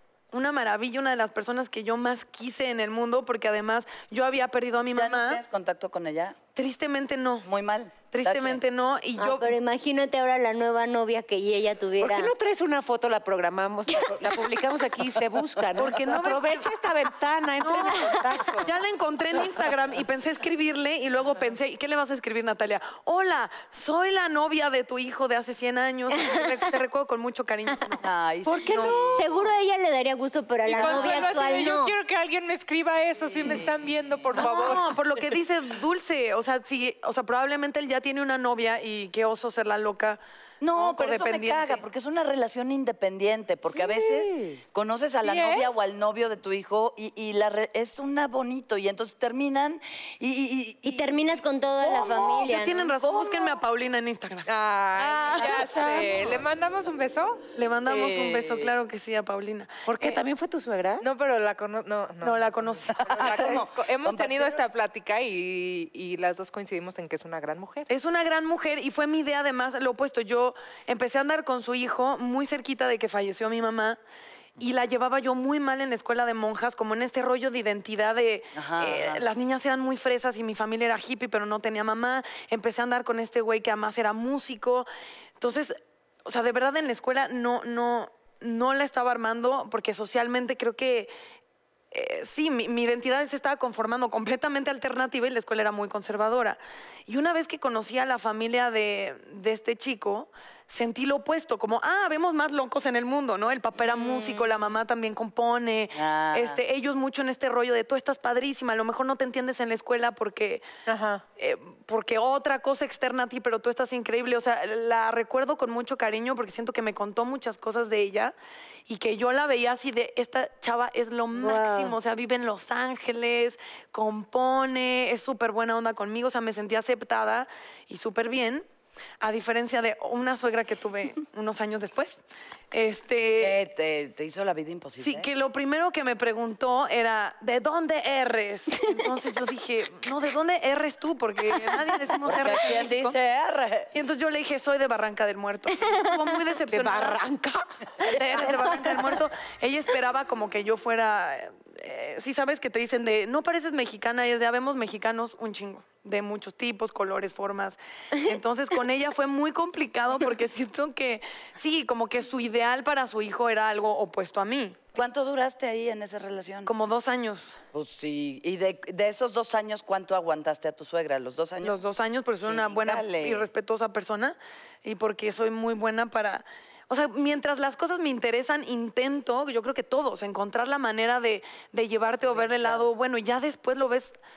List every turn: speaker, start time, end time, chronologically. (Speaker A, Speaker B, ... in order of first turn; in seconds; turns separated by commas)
Speaker A: 0.3-5.4, Speaker B: 4.9-6.4, Speaker A: 6.5-7.5, Speaker B: 7.4-8.6, Speaker A: 8.1-9.5, Speaker C: 9.2-12.3, Speaker D: 12.0-18.7, Speaker A: 15.8-16.7, Speaker A: 17.6-29.2, Speaker B: 28.0-29.2, Speaker D: 28.5-29.0, Speaker C: 29.1-31.9, Speaker E: 30.6-35.2, Speaker B: 30.8-31.1, Speaker B: 33.4-33.7, Speaker A: 34.4-40.2, Speaker B: 40.6-53.6, Speaker A: 40.7-41.8, Speaker D: 43.8-44.6, Speaker E: 45.2-45.7, Speaker C: 50.8-52.9, Speaker A: 52.4-54.5, Speaker E: 54.5-57.4, Speaker A: 55.0-56.0, Speaker B: 55.2-55.6, Speaker A: 57.5-60.2, Speaker B: 57.9-58.7, Speaker D: 59.9-61.0, Speaker E: 61.0-67.9, Speaker A: 62.2-63.5, Speaker B: 62.9-64.6, Speaker A: 67.9-74.0, Speaker A: 74.6-84.9, Speaker B: 78.5-79.3, Speaker A: 85.4-91.1, Speaker A: 91.9-110.7, Speaker E: 103.9-104.5, Speaker B: 105.9-106.6, Speaker E: 110.9-111.2, Speaker A: 111.4-118.3, Speaker A: 118.9-128.7, Speaker A: 129.2-132.2, Speaker A: 132.7-133.6, Speaker B: 133.4-135.3, Speaker A: 135.0-143.2, Speaker B: 142.2-143.9, Speaker A: 143.9-147.2, Speaker D: 146.7-147.6, Speaker A: 148.0-164.8, Speaker B: 164.9-166.7, Speaker A: 166.7-167.6, Speaker B: 167.7-171.7, Speaker A: 171.6-184.2, Speaker B: 172.4-173.5, Speaker D: 182.2-182.9